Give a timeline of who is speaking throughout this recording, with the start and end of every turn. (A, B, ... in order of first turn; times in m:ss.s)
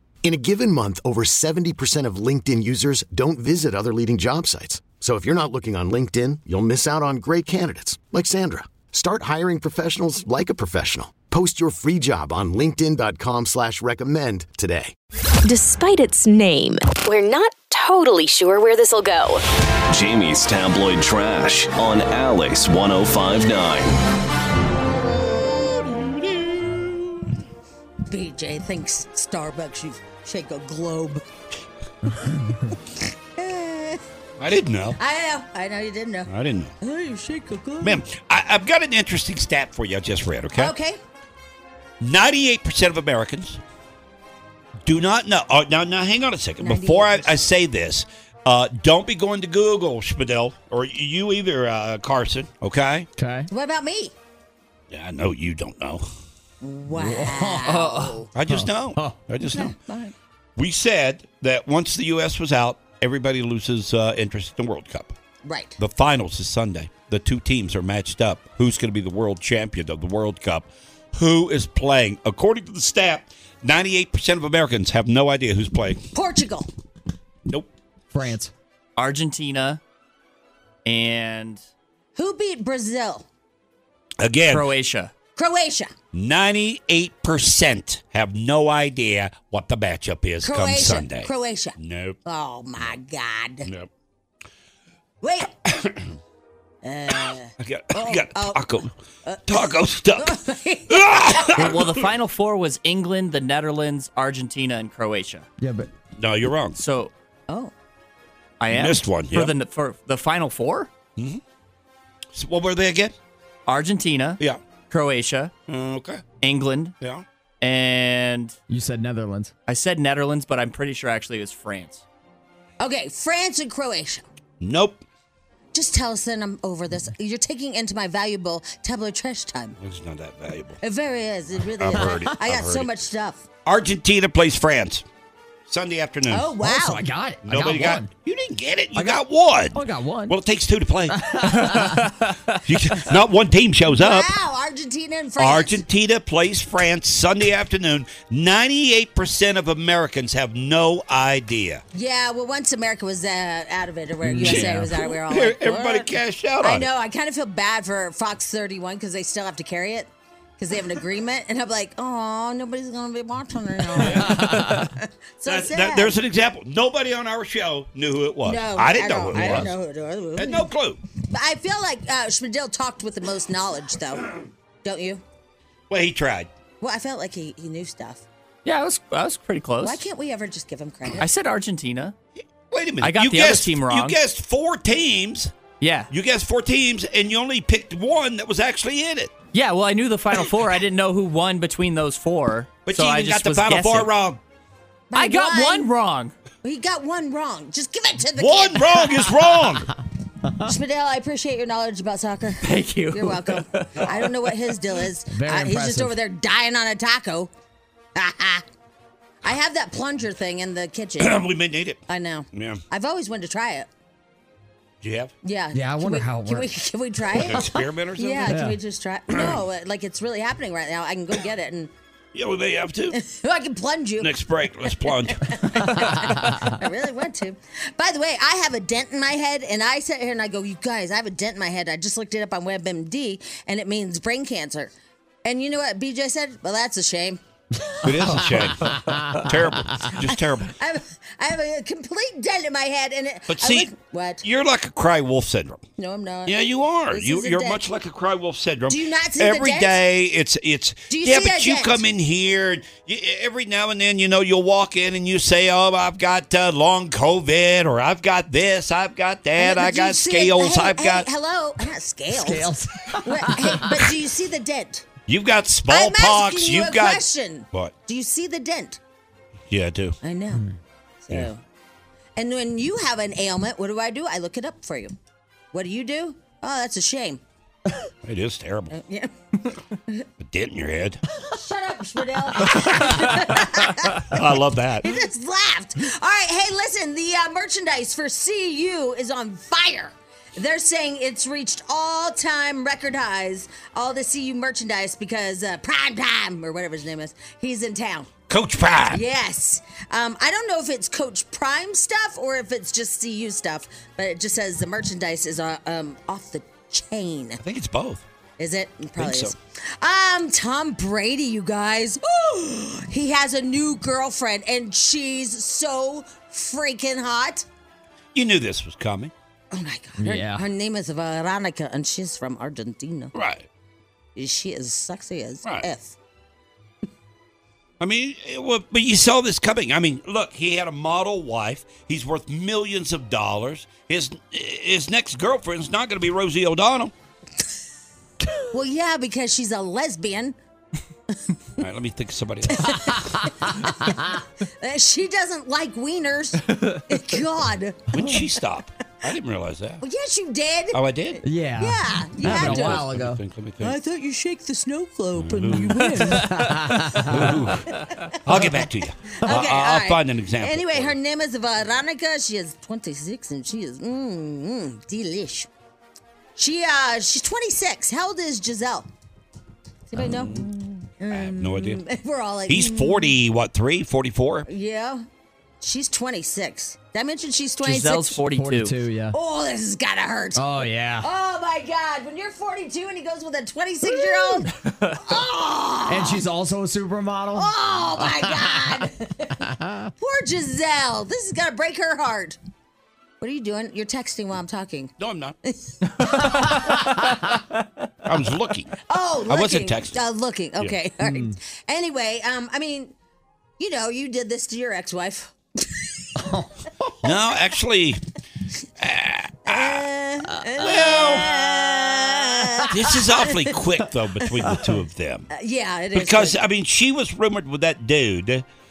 0:00.2-0:14.9 A
0:15.4-0:19.4 B
0:19.9-0:24.0 C
0:25.8-0:27.2 D
0:28.1-0:31.2 E
0:32.7-0:34.0 E
0:34.4-0:35.0 D
0:35.0-0:36.3 E
0:36.3-0:36.7 D
0:36.8-0:38.0 E
0:37.8-0:40.7 D
0:40.5-0:41.0 E
0:42.0-0:43.6 D
0:44.9-0:53.1 D
0:46.6-0:47.5 E
0:53.2-0:53.5 F
0:53.5-0:54.1 E
0:54.9-0:56.1 D
0:56.6-0:58.3 E
0:56.9-0:59.2 F
0:58.3-0:59.8 D
0:59.4-1:00.1 E
1:00.6-1:05.1 D
1:05.4-1:05.8 E
1:05.8-1:16.0 D
1:16.1-1:16.7 E
1:18.1-1:18.5 F
1:19.0-1:19.8 G
1:20.8-1:21.6 G
1:22.2-1:23.3 E
1:24.2-1:24.7 D
1:24.5-1:25.1 G
1:25.4-1:25.9 E
1:26.1-1:32.2 D
1:30.4-1:33.7 E
1:33.6-1:33.9 D
1:35.2-1:35.5 E
1:35.7-1:36.0 D
1:36.8-1:38.7 E
1:37.6-1:38.9 D
1:39.3-1:41.6 E
1:39.5-1:40.4 D
1:40.9-1:42.0 D
1:41.6-1:45.5 G
1:45.6-1:45.9 F
1:46.2-1:46.8 D
1:46.8-1:47.1 G
1:48.6-1:50.9 G
1:48.7-1:49.5 D
1:52.4-1:53.2 D
1:53.7-1:55.5 G
1:55.7-1:56.2 D
1:56.4-1:57.0 G
1:57.6-1:58.6 G
1:58.7-1:59.5 F
1:59.7-2:02.0 G
2:02.8-2:04.2 E
2:04.6-2:05.0 D
2:05.7-2:09.8 E
2:09.8-2:10.8 D
2:10.8-2:13.5 E
2:11.8-2:12.9 D
2:13.6-2:15.0 D
2:15.7-2:16.5 D
2:16.3-2:17.0 E
2:16.6-2:18.1 F
2:17.4-2:21.3 D
2:19.0-2:19.2 F
2:19.7-2:20.4 F
2:21.1-2:22.1 F
2:22.7-2:24.3 D
2:23.9-2:25.8 E
2:25.4-2:31.8 D
2:31.9-2:46.2 E
2:34.2-2:34.9 F
2:34.4-2:36.9 D
2:44.0-2:44.4 D
2:45.5-2:49.7 D
2:48.4-2:50.7 E
2:50.4-2:51.0 D
2:51.2-2:55.2 E
2:55.9-2:56.5 D
2:56.8-2:58.2 E
2:58.6-3:00.1 G
2:59.8-3:01.2 E
3:01.2-3:02.1 G
3:02.7-3:05.5 D
3:03.0-3:04.2 G
3:05.8-3:06.1 G
3:06.1-3:09.3 D
3:09.5-3:14.1 G
3:12.8-3:14.4 D
3:15.1-3:15.9 E
3:15.1-3:16.3 G
3:16.6-3:19.3 E
3:18.4-3:19.9 D
3:20.6-3:27.5 E
3:22.6-3:24.5 G
3:25.3-3:26.2 F
3:28.2-3:28.6 E
3:29.4-3:31.5 E
3:31.2-3:32.0 D
3:32.1-3:33.9 E
3:32.5-3:32.8 D
3:35.0-3:35.3 D
3:35.4-3:41.9 E
3:35.7-3:36.7 F
3:37.3-3:38.7 D
3:38.5-3:38.8 F
3:39.3-3:39.6 D
3:42.3-3:43.2 D
3:43.2-3:54.9 E
3:44.2-3:45.9 D
3:55.4-3:58.6 E
3:58.0-4:00.7 D
3:59.0-3:59.4 F
4:00.8-4:04.4 E
4:03.5-4:03.9 D
4:04.4-4:05.8 D
4:06.0-4:07.8 E
4:06.4-4:21.3 D
4:08.9-4:10.0 E
4:11.1-4:12.0 E
4:19.6-4:22.7 E
4:22.3-4:24.1 F
4:23.2-4:25.1 E
4:25.3-4:27.9 D
4:25.9-4:29.0 E
4:29.7-4:30.2 D
4:30.2-4:30.6 E
4:31.3-4:31.6 E
4:32.4-4:35.1 E
4:35.7-4:37.4 E
4:38.2-4:38.9 D
4:38.9-4:39.3 E
4:40.4-4:41.2 D
4:41.4-4:44.4 E
4:44.2-4:45.2 D
4:45.0-4:58.3 E
4:58.5-4:59.2 D
4:59.1-5:07.6 E
5:07.6-5:08.2 D
5:08.6-5:17.6 E
5:09.2-5:09.5 D
5:18.4-5:19.3 D
5:19.7-5:23.3 E
5:20.2-5:20.7 F
5:23.3-5:23.7 D
5:24.4-5:26.2 E
5:28.0-5:37.1 D
5:38.7-5:40.6 E
5:41.8-5:43.2 D
5:42.7-5:48.1 E
5:43.1-5:44.4 F
5:48.1-5:50.0 D
5:50.0-5:51.0 E
5:50.9-5:51.4 D
5:51.4-5:53.4 F
5:51.8-5:53.1 E
5:52.4-5:54.0 D
5:53.8-5:58.7 E
5:55.4-5:56.3 D
5:55.9-5:57.6 F
5:57.2-6:01.2 D
5:59.3-6:05.7 E
6:06.6-6:09.1 E
6:10.1-6:13.4 E
6:11.3-6:12.0 D
6:12.7-6:14.7 D
6:14.7-6:15.2 E
6:15.8-6:18.4 E
6:17.8-6:19.0 G
6:18.5-6:19.4 F
6:19.3-6:26.4 E
6:20.6-6:21.3 F
6:24.9-6:25.2 G
6:26.1-6:28.8 F
6:27.6-6:29.6 E
6:29.7-6:30.1 F
6:30.2-6:32.6 E
6:33.4-6:35.1 E
6:35.2-6:35.6 D
6:35.7-6:37.3 E
6:36.4-6:37.4 F
6:38.2-6:38.9 D
6:39.0-6:43.1 E
6:39.5-6:40.2 D
6:41.2-6:41.6 F
6:43.8-6:46.3 E
6:46.4-6:46.7 F
6:47.2-6:48.2 D
6:49.0-6:50.0 D
6:49.7-6:53.7 E
6:50.8-6:51.5 D
6:52.8-6:55.5 D
6:55.5-6:56.6 E
6:56.1-6:58.6 D